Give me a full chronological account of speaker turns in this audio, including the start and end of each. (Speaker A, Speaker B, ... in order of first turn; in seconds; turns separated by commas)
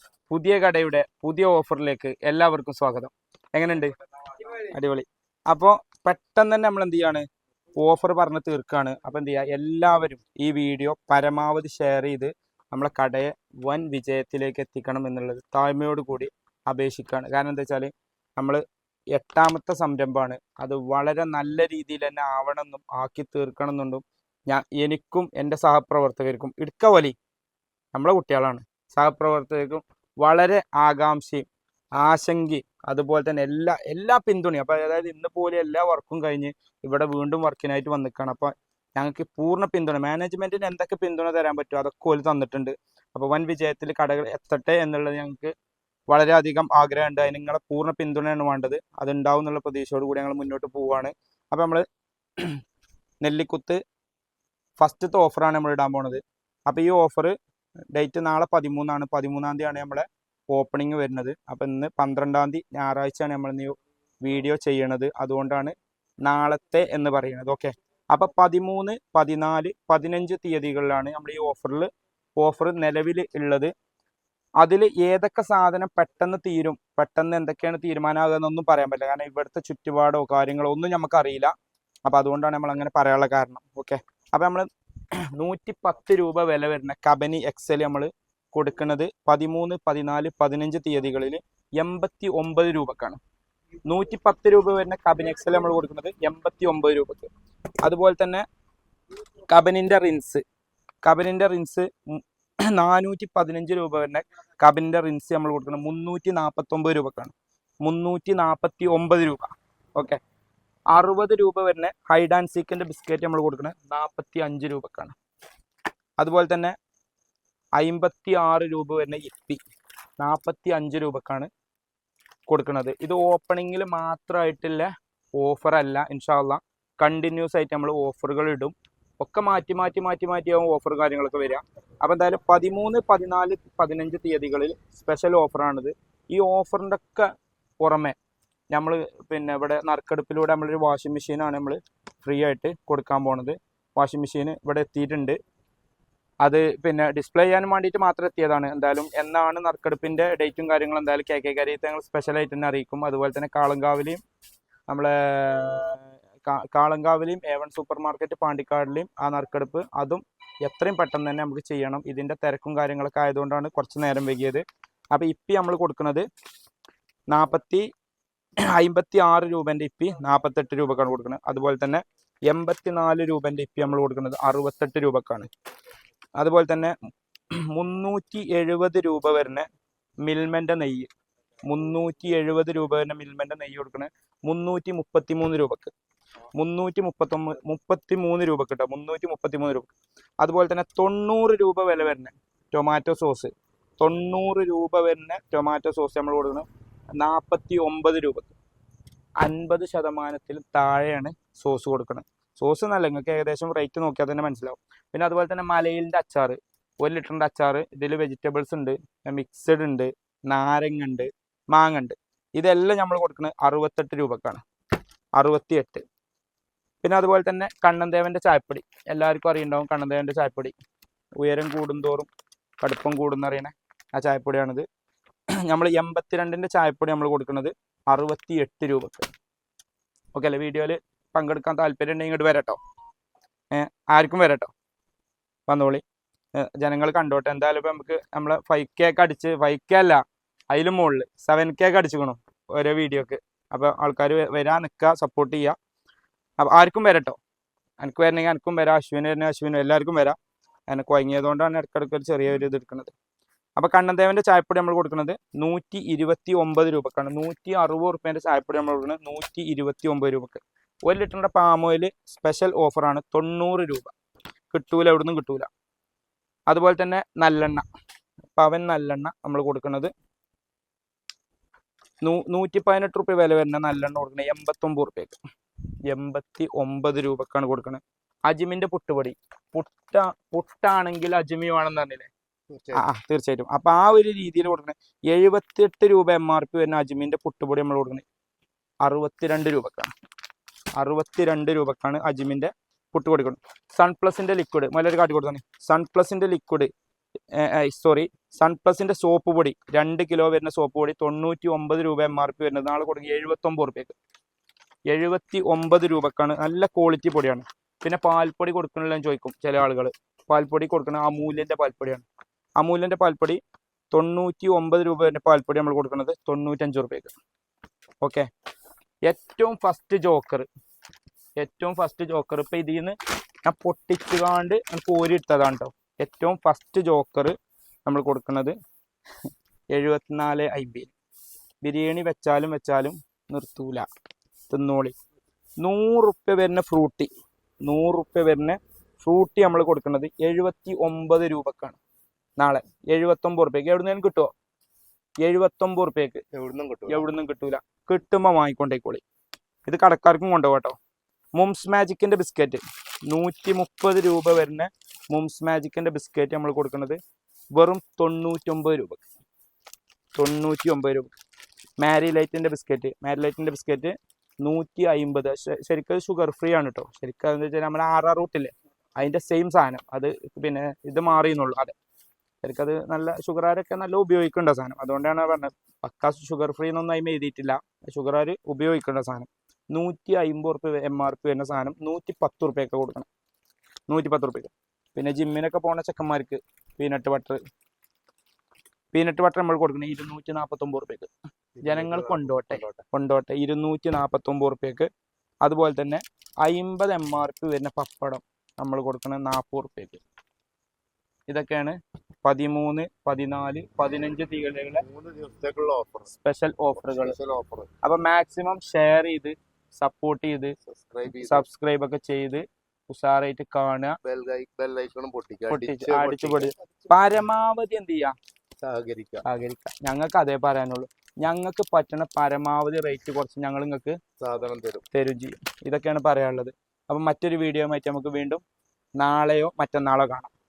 Speaker A: 0.3-7.2, Speaker A: 7.8-18.6, Speaker A: 19.1-27.1, Speaker A: 27.9-31.5, Speaker A: 32.0-45.5, Speaker A: 46.1-51.8, Speaker A: 53.2-53.8, Speaker A: 54.8-57.3, Speaker A: 57.9-73.7, Speaker A: 74.6-81.5, Speaker A: 82.0-84.7, Speaker A: 85.3-93.2, Speaker A: 93.8-97.3, Speaker A: 97.8-98.4, Speaker A: 99.5-100.4, Speaker A: 101.0-110.2, Speaker A: 110.9-115.1, Speaker A: 116.2-116.7, Speaker A: 117.8-119.6, Speaker A: 120.2-121.5, Speaker A: 122.5-138.2, Speaker A: 138.7-145.4, Speaker A: 146.4-154.2, Speaker A: 154.9-166.2, Speaker A: 167.3-167.8, Speaker A: 168.7-175.5, Speaker A: 176.4-176.9, Speaker A: 177.5-179.7, Speaker A: 180.2-181.1, Speaker A: 181.6-185.9, Speaker A: 186.5-196.7, Speaker A: 197.2-198.5, Speaker A: 199.4-214.6, Speaker A: 215.3-216.0, Speaker A: 217.0-220.7, Speaker A: 221.4-222.3, Speaker A: 222.8-224.8, Speaker A: 225.7-229.3, Speaker A: 230.3-232.8, Speaker A: 233.7-234.7, Speaker A: 235.7-236.0, Speaker A: 236.5-245.8, Speaker A: 246.6-247.4, Speaker A: 248.0-250.4, Speaker A: 250.9-253.1, Speaker A: 253.8-264.1, Speaker A: 264.7-265.7, Speaker A: 266.7-267.8, Speaker A: 268.5-270.1, Speaker A: 272.2-275.4, Speaker A: 276.1-282.3, Speaker B: 282.7-283.0, Speaker A: 282.9-288.2, Speaker A: 289.0-290.1, Speaker A: 291.0-296.9, Speaker A: 297.5-304.1, Speaker A: 305.1-312.2, Speaker A: 312.8-313.6, Speaker A: 314.1-317.3, Speaker A: 318.2-318.4, Speaker A: 319.2-320.7, Speaker A: 321.6-327.5, Speaker A: 328.1-328.7, Speaker A: 329.9-331.1, Speaker A: 331.8-334.1, Speaker A: 334.7-335.1, Speaker A: 335.8-337.3, Speaker A: 337.8-342.0, Speaker A: 342.6-344.5, Speaker A: 345.4-346.4, Speaker B: 346.5-347.2, Speaker A: 347.1-349.2, Speaker A: 349.9-350.9, Speaker A: 351.5-357.2, Speaker A: 357.7-359.2, Speaker A: 360.3-361.3, Speaker A: 362.0-371.9, Speaker A: 372.6-383.3, Speaker A: 384.1-387.6, Speaker A: 389.1-391.3, Speaker B: 391.8-393.0, Speaker A: 391.8-395.1, Speaker A: 395.6-400.2, Speaker A: 401.5-405.1, Speaker B: 405.0-406.3, Speaker A: 406.3-407.4, Speaker B: 406.9-407.9, Speaker A: 408.0-410.7, Speaker B: 410.9-411.6, Speaker A: 411.4-414.2, Speaker B: 414.2-416.7, Speaker A: 415.7-418.3, Speaker B: 418.8-419.4, Speaker A: 419.4-424.2, Speaker B: 424.4-425.0, Speaker A: 425.1-428.6, Speaker A: 429.2-430.5